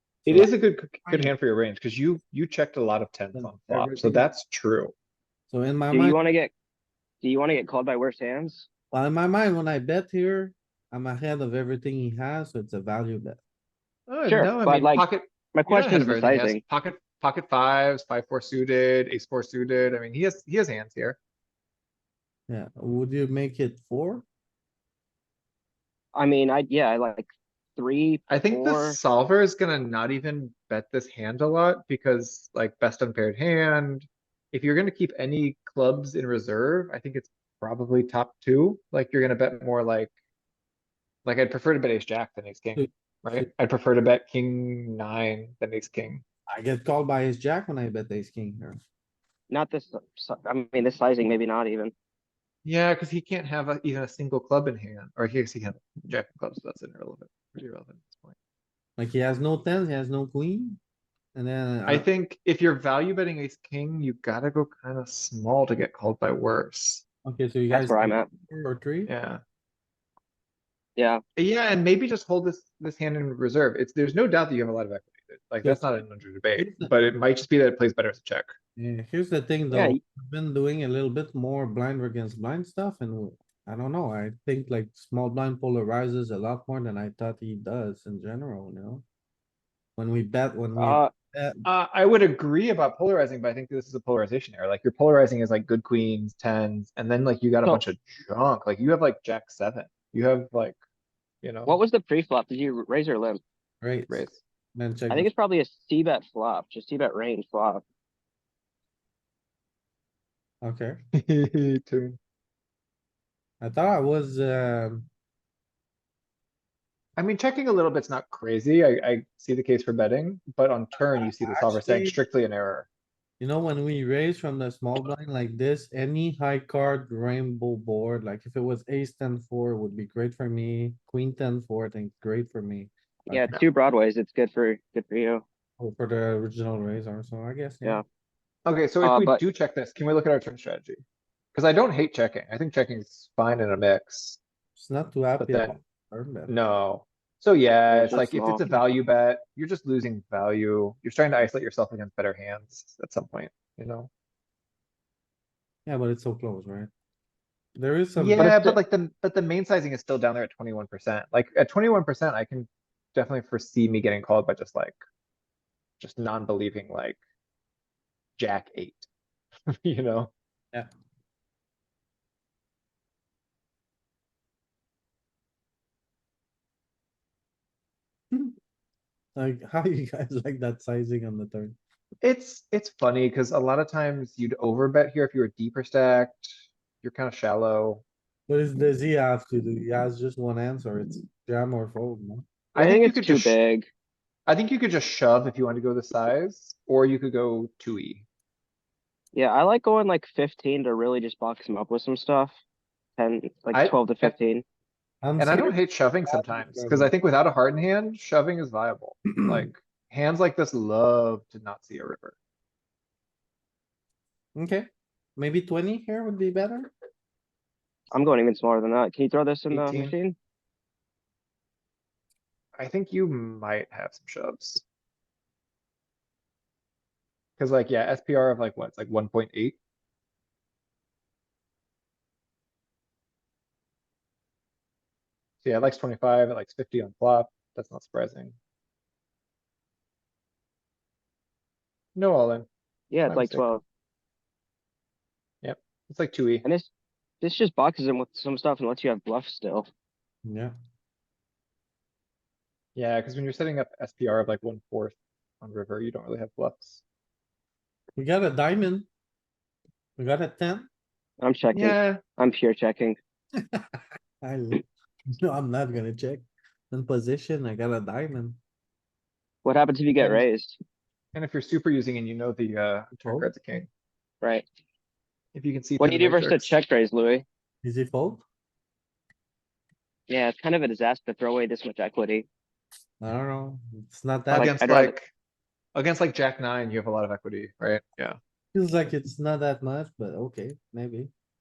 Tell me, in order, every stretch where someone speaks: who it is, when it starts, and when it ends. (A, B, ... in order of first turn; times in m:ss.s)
0:00.2-0:00.5 A
0:00.2-0:04.9 B
0:01.0-0:01.3 A
0:03.3-0:04.2 A
0:05.5-0:06.2 A
0:05.9-0:06.5 C
0:07.2-0:08.7 C
0:08.9-0:13.4 A
0:14.1-0:21.2 B
0:14.2-0:16.6 C
0:22.5-0:24.2 A
0:26.1-0:29.0 C
0:28.3-0:40.1 B
0:41.2-0:46.2 B
0:42.7-0:43.5 A
0:46.5-0:48.8 A
0:49.5-0:51.9 C
0:52.6-0:58.4 B
0:59.0-1:00.8 A
1:01.3-1:02.1 A
1:01.9-1:07.0 B
1:07.2-1:09.1 A
1:07.7-1:08.3 C
1:09.1-1:09.4 B
1:11.0-1:11.2 C
1:11.4-1:18.5 B
1:16.6-1:16.9 A
1:18.8-1:29.0 A
1:19.7-1:20.0 C
1:30.0-1:31.6 A
1:30.8-1:31.1 C
1:31.6-1:40.8 B
1:41.4-1:41.8 B
1:41.7-1:43.4 C
1:43.8-1:45.3 A
1:44.1-1:44.4 B
1:45.1-1:47.8 C
1:50.6-1:51.0 A
1:51.1-1:52.2 B
1:53.6-1:55.1 A
1:57.2-2:02.9 B
2:01.0-2:02.2 A
2:03.4-2:13.6 A
2:13.3-2:15.4 C
2:15.8-2:18.0 A
2:18.6-2:21.0 B
2:19.0-2:19.4 C
2:21.5-2:24.4 B
2:24.8-2:26.5 A
2:25.4-2:25.8 B
2:26.5-2:34.1 B
2:27.9-2:28.6 C
2:35.8-2:36.9 A
2:37.8-2:38.8 A
2:38.2-2:45.0 B
2:46.0-2:47.2 B
2:48.4-2:49.1 B
2:49.7-2:50.3 B
2:59.3-3:01.8 A
3:02.2-3:08.0 B
3:08.5-3:12.4 A
3:12.7-3:13.6 B
3:12.7-3:13.9 C
3:14.5-3:18.2 B
3:19.3-3:22.6 C
3:23.2-3:24.6 C
3:23.7-3:24.3 B
3:25.2-3:27.1 A
3:25.4-3:32.4 B
3:29.3-3:29.7 A
3:34.5-3:36.9 A
3:38.1-3:40.4 C
3:39.7-3:40.2 B
3:42.8-3:44.8 B
3:47.6-3:49.8 B
3:55.6-3:58.6 B
4:02.1-4:02.7 B
4:03.1-4:03.8 C
4:03.2-4:03.6 B
4:05.6-4:06.6 B
4:06.6-4:06.9 C
4:07.4-4:09.9 C
4:10.4-4:10.7 A
4:12.9-4:17.0 B
4:18.2-4:19.1 A
4:20.2-4:20.9 A
4:21.4-4:23.2 C
4:21.7-4:22.2 B
4:23.7-4:24.8 A
4:25.4-4:28.6 A
4:29.6-4:30.8 C
4:31.3-4:33.9 B
4:33.2-4:33.5 A
4:35.5-4:36.8 B
4:36.0-4:37.4 C
4:37.8-4:38.4 A
4:40.3-4:42.4 C
4:43.2-4:44.8 A
4:44.5-4:45.1 C
4:44.5-4:45.3 B
4:45.9-4:48.4 B
4:48.7-4:51.3 A